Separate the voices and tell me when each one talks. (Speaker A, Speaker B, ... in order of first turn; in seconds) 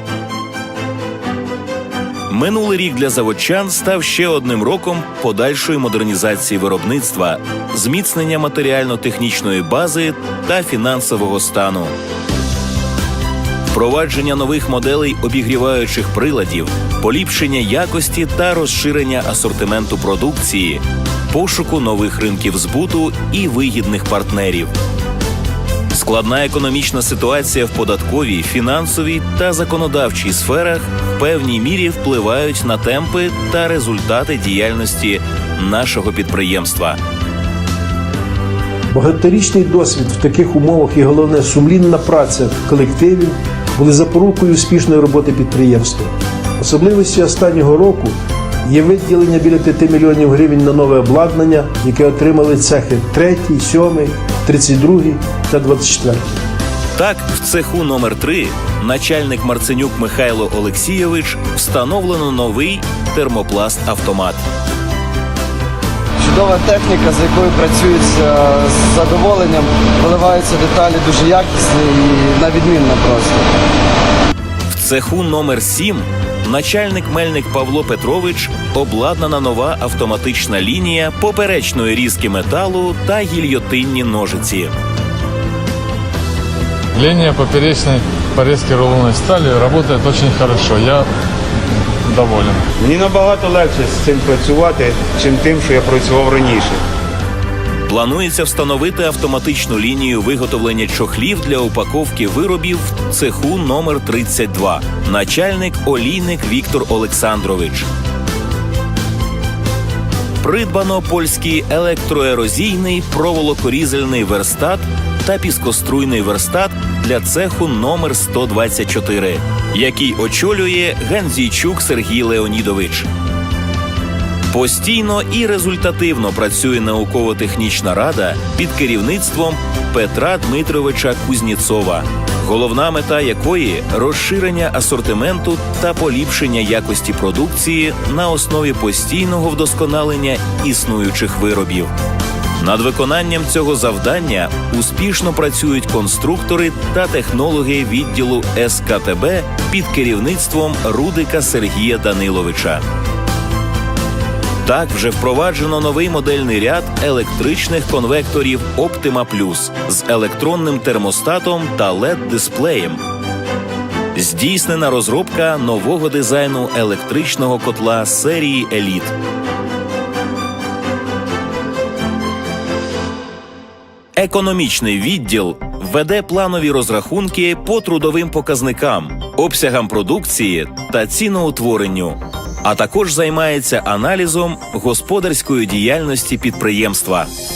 Speaker A: 2.3-11.9, 13.7-24.7, 25.9-37.0, 57.0-64.4, 74.7-84.7, 97.9-107.9, 110.4-123.1, 124.5-141.9, 142.6-152.8, 154.6-163.0, 164.1-169.2, 174.2-187.3
Speaker B: 38.9-48.1, 48.7-56.4
Speaker C: 66.2-73.5
Speaker D: 87.0-91.1, 92.0-92.7
Speaker E: 92.8-96.8